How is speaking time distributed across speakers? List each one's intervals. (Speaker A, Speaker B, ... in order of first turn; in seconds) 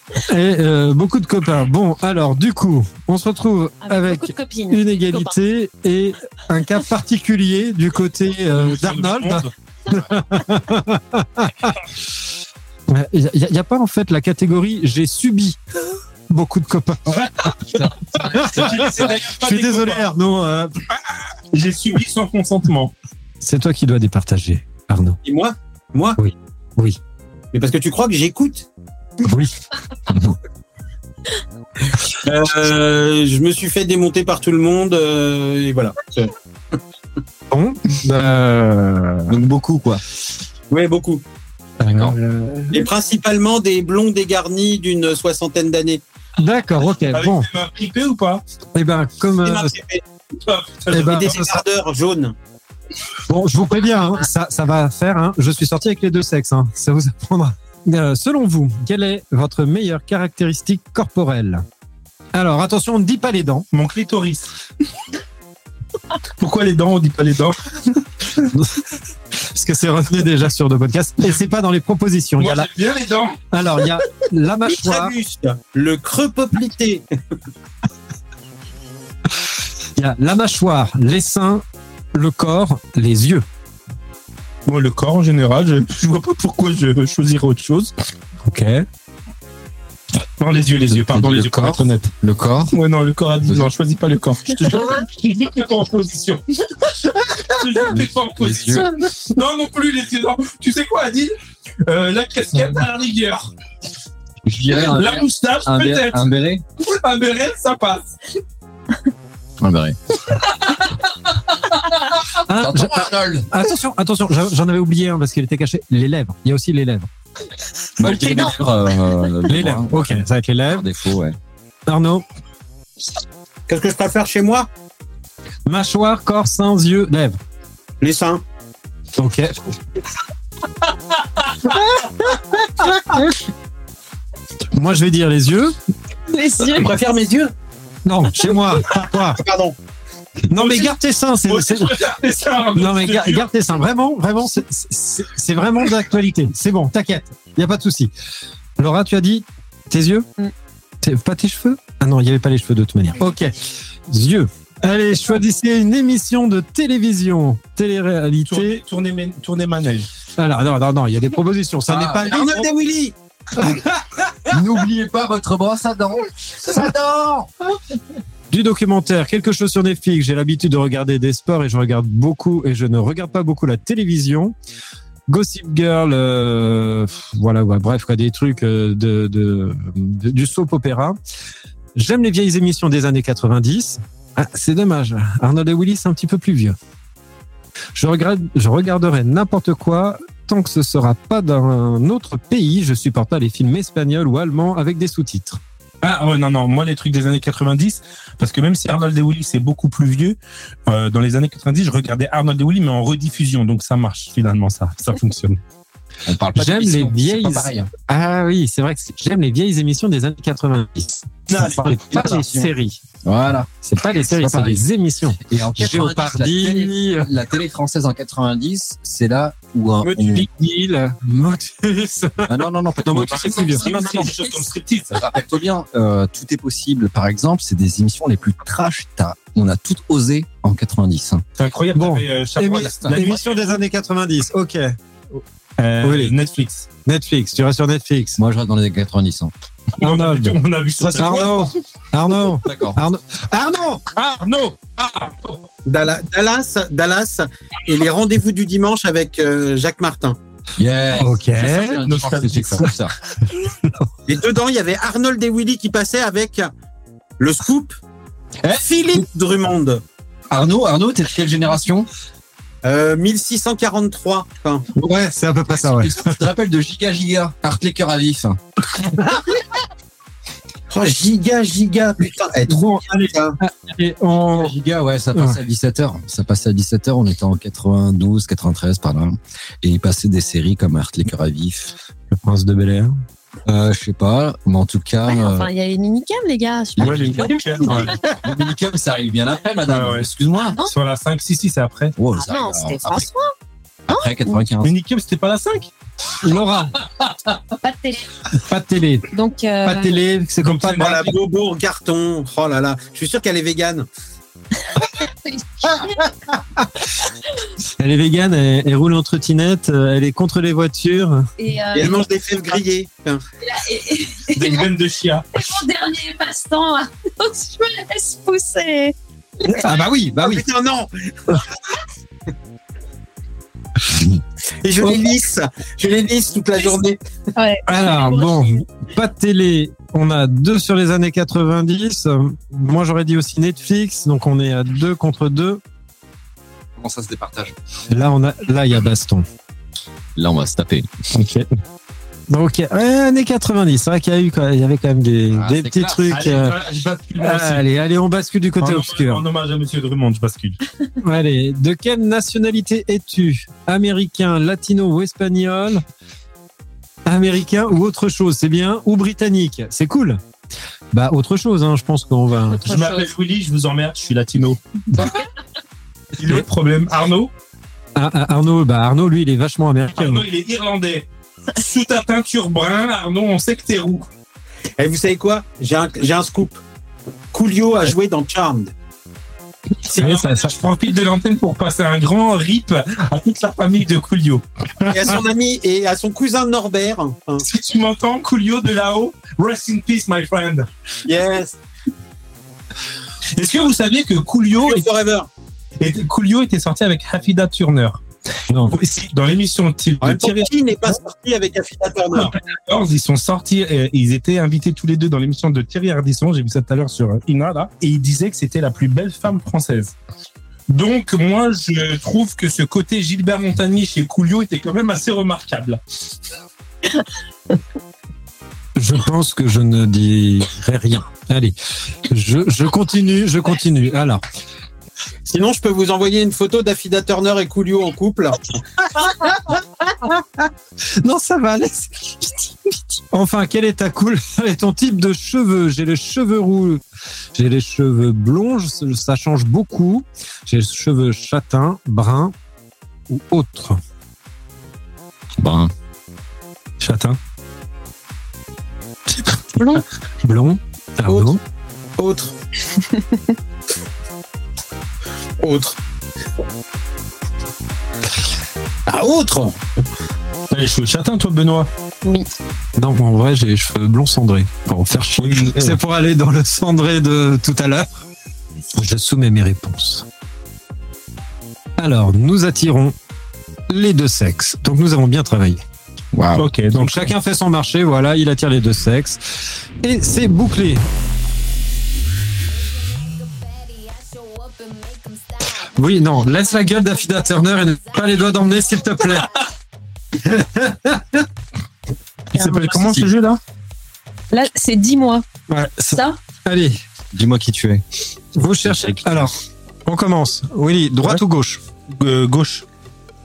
Speaker A: 0.2-11.8, 12.9-15.6, 16.3-20.7, 23.4-25.2, 26.2-27.0, 29.2-29.5, 37.5-39.3, 41.9-42.8, 46.4-47.5, 48.7-49.7, 50.9-51.6, 53.3-61.6, 62.3-63.7, 68.5-68.8, 69.4-72.7, 73.5-75.1, 80.0-81.6, 82.1-83.4, 88.5-88.8, 112.4-117.1, 119.5-120.9, 121.9-122.2, 125.7-127.4, 129.2-129.7, 131.6-133.4, 134.7-135.8, 138.1-139.4, 140.5-142.0, 142.7-148.1, 148.8-150.3, 151.0-153.6, 154.1-158.8, 160.4-162.7, 168.5-174.5, 175.3-181.2, 181.9-186.8, 187.9-195.6, 206.6-213.0, 213.8-217.3, 220.0-224.2, 231.9-235.4, 236.0-236.3, 237.1-238.4, 240.0-244.0, 251.2-252.0, 264.9-266.3, 269.2-269.6, 272.7-274.7, 282.3-283.2, 296.4-296.9, 298.6-299.3, 299.8-301.3, 308.0-311.5, 319.7-320.6, 327.9-335.8, 338.1-339.4, 342.5-346.8, 347.4-349.4, 351.2-356.0, 357.2-360.4, 361.1-362.9, 368.1-370.4, 380.1-380.5, 398.7-399.0, 418.9-421.8, 422.3-424.4, 429.1-437.0, 437.5-442.5, 443.3-444.0, 450.4-451.6, 462.9-468.1, 468.9-470.2, 472.0-473.1, 473.9-475.8, 476.9-481.0, 485.7-489.6, 490.4-491.4, 495.7-497.0, 498.6-499.5, 500.1-501.8
Speaker B: 3.8-5.3, 136.3-136.9, 285.3-288.4, 292.4-293.5, 294.1-294.6, 297.8-298.3, 299.3-300.2, 305.0-306.3, 311.6-312.2, 313.6-314.9, 315.5-319.1, 327.6-328.8, 362.9-363.3, 462.2-462.5, 494.5-495.4, 496.1-496.4
Speaker C: 8.5-10.0, 17.2-20.1, 21.5-22.9, 47.1-48.4, 50.4-51.4, 63.7-64.5, 66.4-68.4, 72.4-73.4, 84.7-87.9, 90.4-92.1, 92.7-103.5, 104.8-108.1, 140.5-140.9, 141.5-143.5, 158.4-160.1, 196.0-205.6, 211.5-212.5, 223.3-225.1, 231.6-233.8, 235.8-236.9, 240.0-241.7, 244.2-245.6, 252.0-252.9, 287.0-288.2, 289.9-290.3, 290.8-292.1, 294.8-295.9, 300.6-301.3, 314.5-315.6, 346.3-347.8, 348.8-350.8, 362.8-365.4, 366.4-367.5, 370.2-374.3, 380.0-384.6, 387.6-390.9, 393.6-395.1, 396.0-398.2, 398.9-400.7, 402.3-410.1, 410.9-416.0, 447.0-447.4, 460.7-461.9, 465.4-466.0, 476.5-477.3, 492.5-493.6, 502.1-502.8
Speaker D: 25.2-26.2, 27.5-28.7, 31.9-36.8, 40.7-41.2, 42.7-46.0, 49.4-50.0, 50.9-52.3, 74.7-77.0, 123.7-124.7, 128.0-128.4, 136.6-137.5, 138.9-139.8, 161.9-163.1, 245.8-250.4, 254.3-256.7, 257.4-258.0, 258.8-260.0, 262.8-264.9, 270.9-273.6, 300.9-304.1, 311.9-313.4, 320.4-321.6, 324.8-327.2, 375.0-376.8, 377.5-378.9, 385.1-387.6, 391.2-391.7, 394.8-395.5, 400.2-402.5, 425.5-428.6, 451.3-451.6, 452.2-452.5, 455.6-456.0, 459.1-459.8
Speaker E: 39.3-40.0, 41.8-42.1, 90.9-92.7, 93.4-93.7, 98.0-98.9, 104.4-106.6, 109.6-110.0, 112.3-113.5, 118.0-121.4, 161.9-162.3, 164.4-167.5, 206.2-207.9, 212.1-212.5, 213.2-213.7, 214.3-214.8, 215.4-220.5, 222.4-224.4, 225.1-231.4, 232.7-233.2, 238.4-239.5, 242.6-243.0, 250.8-253.1, 258.6-259.2, 260.5-262.1, 265.7-268.6, 274.5-281.9, 283.6-285.7, 287.0-290.8, 292.2-293.3, 294.1-294.9, 337.0-337.7, 340.4-341.1, 345.5-346.5, 445.6-445.9, 476.3-476.7, 497.3-498.0, 498.8-499.5